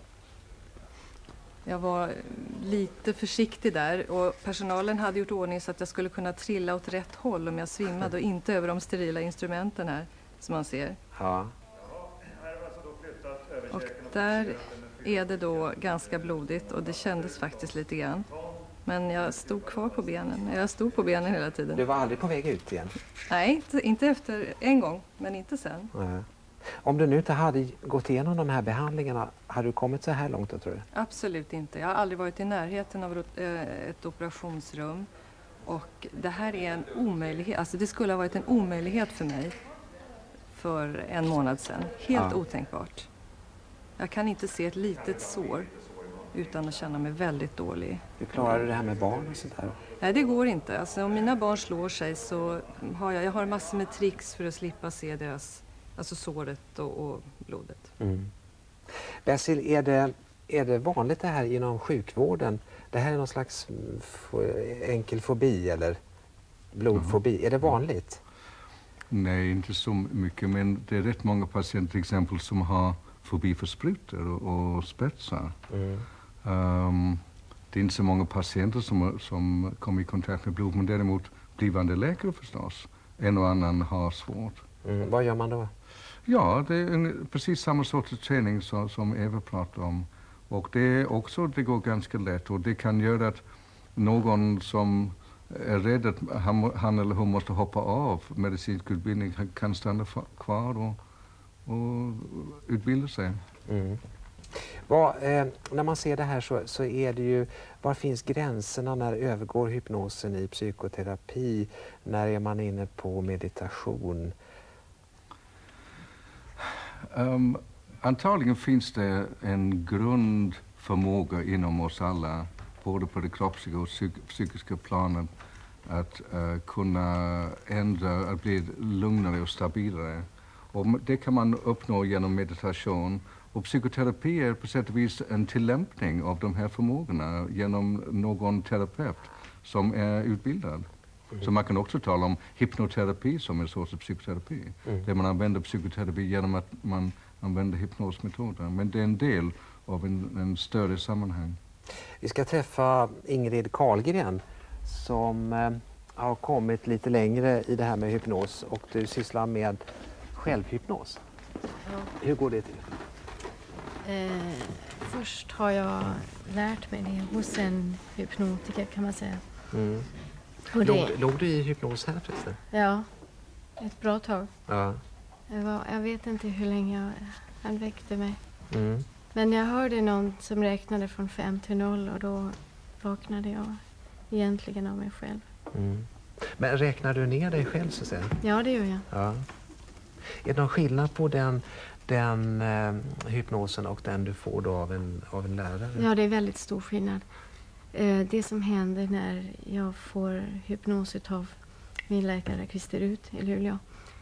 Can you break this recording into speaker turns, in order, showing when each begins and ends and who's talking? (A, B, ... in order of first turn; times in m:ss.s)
0:01.6-0:11.0 A
0:11.1-0:11.5 B
0:13.7-0:18.3 A
0:18.8-0:21.8 A
0:21.7-0:23.0 B
0:23.3-0:25.9 A
0:25.9-0:30.8 B
0:30.9-0:35.1 A
0:35.6-0:39.5 A
0:40.5-0:43.1 A
0:42.1-0:42.4 B
0:44.0-0:45.7 A
0:46.3-0:48.0 A
0:48.2-0:49.8 B
0:50.0-0:57.9 A
0:58.0-0:58.3 B
0:59.2-1:06.0 B
1:06.7-1:08.2 B
1:09.1-1:15.5 C
1:15.7-1:16.1 B
1:16.4-1:24.6 C
1:24.8-1:25.7 B
1:26.3-1:33.4 C
1:34.0-1:41.0 C
1:41.6-1:43.4 C
1:43.7-1:44.0 B
1:44.6-1:54.3 B
1:57.0-2:05.3 C
2:05.8-2:20.8 C
2:21.4-2:31.6 C
2:32.2-2:39.8 B
2:40.3-2:41.2 B
2:41.8-2:42.1 D
2:42.2-2:42.8 B
2:44.0-2:49.4 D
2:49.7-2:50.1 B
2:50.7-2:51.1 D
2:50.8-2:52.6 B
2:52.7-2:53.1 D
2:53.8-2:54.5 D
2:54.7-2:55.0 B
2:55.5-2:58.4 D
2:58.7-2:59.0 B
2:59.3-3:05.4 D
3:05.7-3:08.4 B
3:08.4-3:09.0 D
3:09.1-3:09.4 B
3:10.4-3:16.0 B
3:15.9-3:17.2 D
3:17.9-3:21.5 D
3:22.1-3:23.8 D